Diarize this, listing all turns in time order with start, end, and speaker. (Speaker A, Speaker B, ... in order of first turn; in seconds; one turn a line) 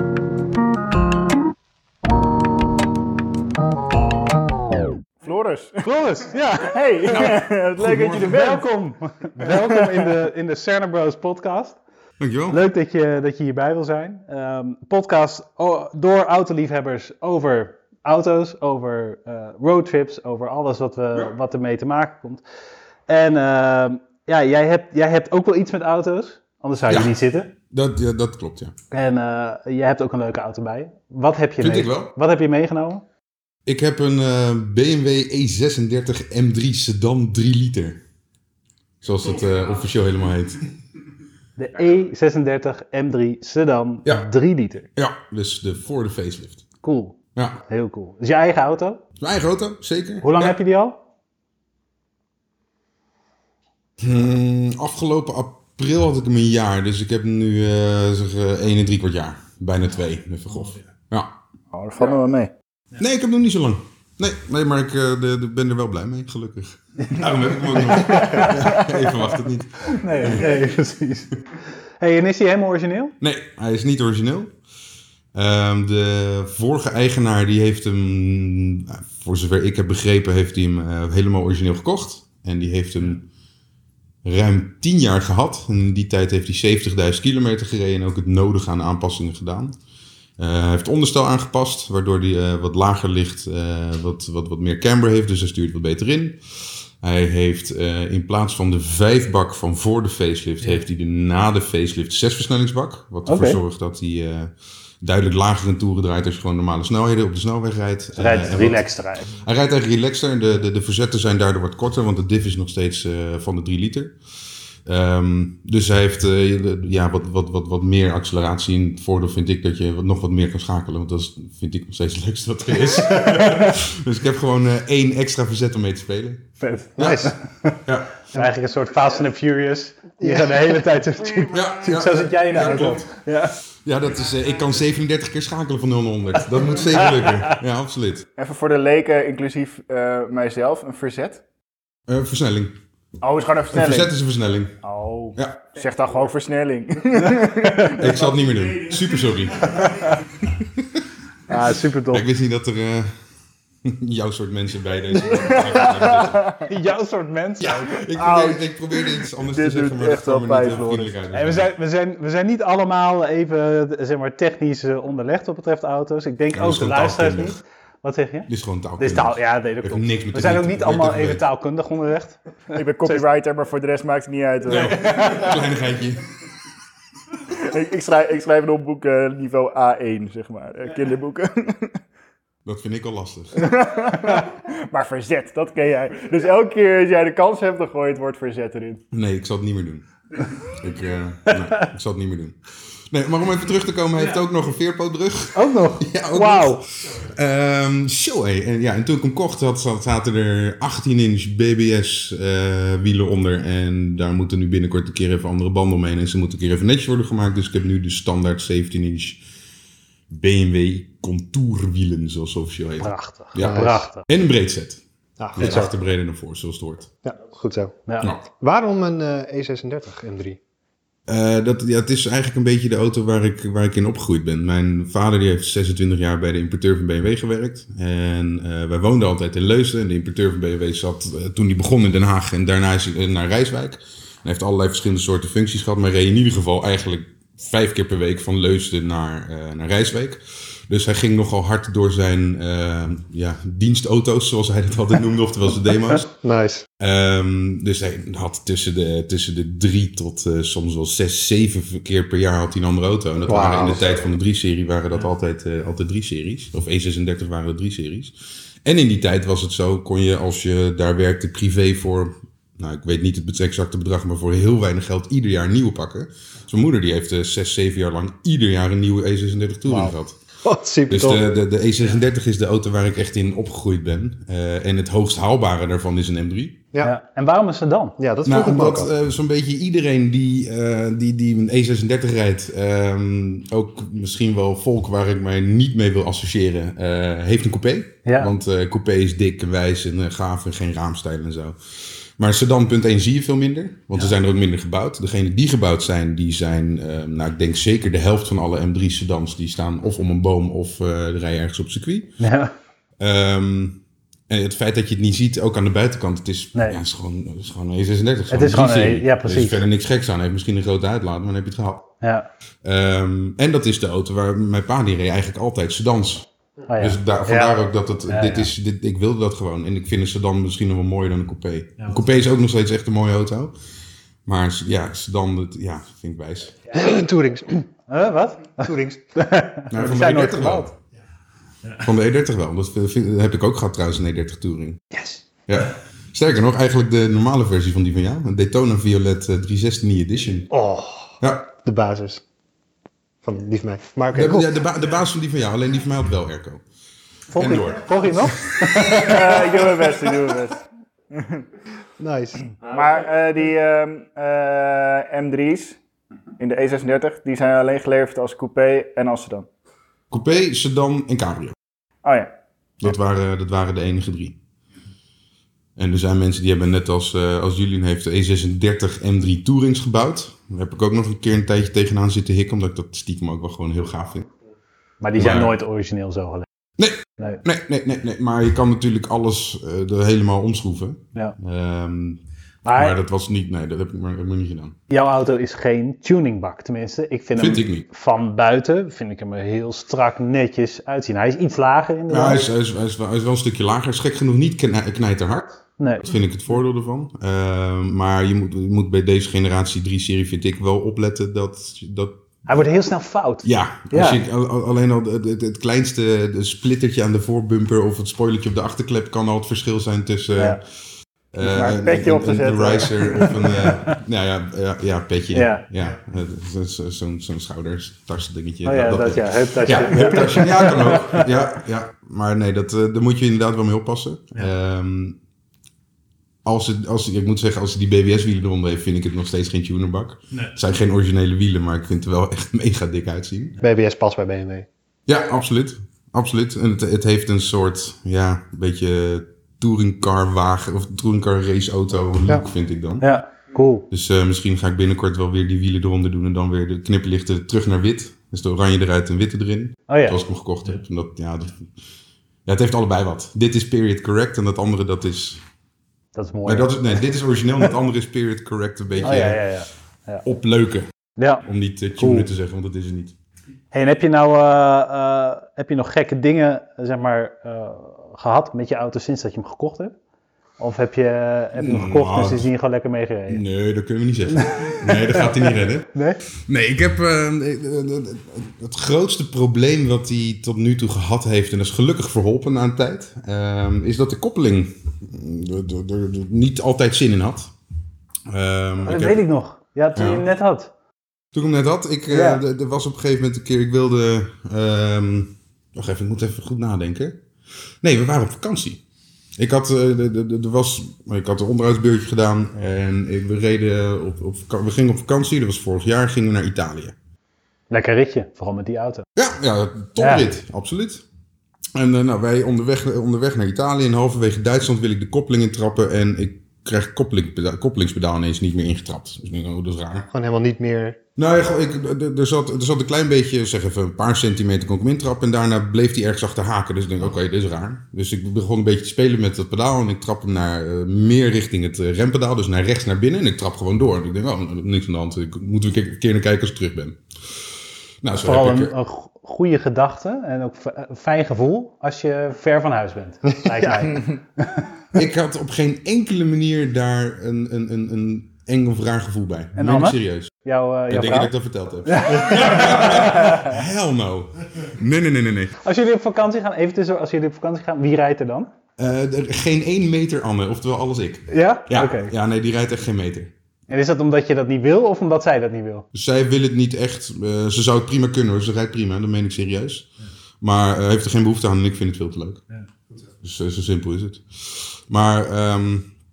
Speaker A: 5.2-5.8
Speaker B: 5.8-6.9
Speaker A: 6.7-8.6
Speaker C: 7.0-8.4
Speaker B: 8.1-11.8
Speaker A: 9.4-10.0
Speaker C: 12.2-12.6
Speaker B: 12.5-22.4
Speaker B: 23.1-27.5
Speaker C: 26.9-27.2
Speaker C: 27.7-28.7
Speaker B: 28.9-33.0
Speaker C: 31.6-32.1
Speaker C: 33.6-38.0
Speaker C: 39.0-40.6
Speaker B: 41.6-44.9
Speaker C: 45.0-46.6
Speaker B: 46.8-49.0
Speaker C: 49.2-50.5
Speaker B: 50.2-51.0
Speaker C: 54.0-61.3
Speaker A: 61.7-62.5
Speaker C: 63.0-70.6
Speaker B: 67.7-68.9
Speaker B: 69.9-71.4
Speaker B: 72.0-73.1
Speaker C: 73.2-74.5
Speaker C: 75.3-83.2
Speaker C: 84.2-89.8
Speaker C: 90.4-114.2
Speaker B: 103.2-103.6
Speaker B: 108.2-109.3
Speaker C: 114.8-126.5
Speaker B: 126.6-127.8
Speaker C: 127.0-128.2
Speaker B: 128.3-133.5
Speaker D: 130.2-130.8
Speaker C: 131.5-133.1
Speaker C: 133.8-138.3
Speaker B: 136.8-137.5
Speaker A: 138.4-141.4
Speaker C: 142.1-142.7
Speaker A: 143.2-144.1
Speaker C: 143.7-144.7
Speaker A: 144.8-149.9
Speaker C: 145.3-145.6
Speaker C: 148.0-149.8
Speaker B: 151.5-152.2
Speaker C: 152.1-153.1
Speaker C: 153.8-156.4
Speaker A: 155.3-156.7
Speaker B: 156.7-158.0
Speaker C: 157.6-161.7
Speaker A: 158.2-161.1
Speaker B: 161.3-173.3
Speaker C: 166.5-167.6
Speaker C: 168.5-171.4
Speaker A: 172.7-174.9
Speaker C: 174.7-176.2
Speaker B: 174.7-175.6
Speaker A: 177.5-182.0
Speaker C: 182.6-183.7
Speaker A: 183.6-189.0
Speaker C: 189.1-190.1
Speaker C: 190.6-192.6
Speaker C: 193.1-209.4
Speaker B: 195.5-196.8
Speaker C: 210.3-215.0
Speaker B: 213.0-214.2
Speaker D: 213.6-214.0
Speaker D: 215.4-215.9
Speaker C: 215.6-217.1
Speaker D: 217.2-220.6
Speaker C: 221.3-246.3
Speaker D: 246.4-246.8
Speaker C: 247.0-270.4
Speaker D: 253.5-254.0
Speaker D: 269.9-270.1
Speaker D: 270.6-271.4
Speaker C: 271.1-276.8
Speaker B: 277.0-278.1
Speaker D: 278.2-279.1
Speaker C: 278.4-302.3
Speaker B: 288.2-288.5
Speaker B: 302.4-302.7
Speaker C: 303.2-312.1
Speaker B: 308.5-309.8
Speaker B: 312.2-312.5
Speaker C: 312.8-316.5
Speaker B: 316.9-318.7
Speaker C: 317.0-323.7
Speaker C: 324.4-326.9
Speaker D: 326.9-327.8
Speaker B: 328.1-330.9
Speaker D: 328.8-329.2
Speaker C: 329.9-330.9
Speaker C: 331.9-335.0
Speaker B: 335.1-335.4
Speaker C: 335.7-340.7
Speaker D: 340.7-342.4
Speaker C: 341.4-341.7
Speaker D: 343.4-344.7
Speaker C: 344.3-346.8
Speaker B: 347.5-349.4
Speaker C: 347.6-350.6
Speaker A: 349.1-350.8
Speaker A: 351.3-351.6
Speaker D: 352.2-352.6
Speaker A: 352.8-356.0
Speaker A: 356.6-359.7
Speaker C: 360.3-361.8
Speaker A: 362.2-362.5
Speaker C: 363.0-364.6
Speaker C: 366.0-374.5
Speaker B: 375.2-376.7
Speaker C: 375.4-375.7
Speaker C: 377.0-382.4
Speaker B: 382.8-383.2
Speaker C: 382.9-384.9
Speaker B: 385.1-392.6
Speaker C: 387.6-388.0
Speaker C: 392.3-402.3
Speaker B: 396.0-396.2
Speaker B: 402.7-404.4
Speaker C: 403.6-410.8
Speaker C: 411.5-425.4
Speaker A: 411.6-413.9
Speaker B: 415.5-415.8
Speaker B: 418.8-421.4
Speaker C: 426.6-433.8
Speaker D: 433.8-434.9
Speaker C: 435.3-443.3
Speaker B: 443.2-444.1
Speaker C: 444.1-451.9
Speaker B: 450.1-450.4
Speaker C: 452.6-455.6
Speaker B: 456.3-457.0
Speaker C: 456.6-459.6
Speaker B: 459.2-460.4
Speaker C: 460.4-461.1
Speaker B: 461.4-461.6
Speaker C: 461.6-463.3
Speaker B: 462.2-462.5
Speaker B: 463.9-470.1
Speaker B: 470.8-473.6
Speaker C: 471.8-472.7
Speaker C: 473.5-476.1
Speaker B: 474.5-476.4
Speaker C: 476.7-487.7
Speaker C: 488.5-489.4
Speaker B: 489.0-490.9
Speaker C: 490.1-490.5
Speaker C: 491.5-497.4
Speaker B: 492.3-492.6
Speaker C: 498.0-499.0
Speaker C: 499.6-507.1
Speaker B: 507.9-509.2
Speaker C: 509.4-511.2
Speaker B: 510.2-510.4
Speaker C: 511.9-520.3
Speaker D: 520.3-521.2
Speaker C: 521.4-537.2
Speaker C: 538.2-538.9
Speaker B: 538.4-544.9
Speaker C: 545.1-550.5
Speaker B: 549.8-551.5
Speaker C: 551.1-555.7
Speaker B: 552.0-553.7
Speaker B: 555.8-558.7
Speaker C: 559.0-563.5
Speaker B: 561.5-562.3
Speaker B: 563.9-566.0
Speaker C: 566.1-572.6
Speaker C: 573.4-576.1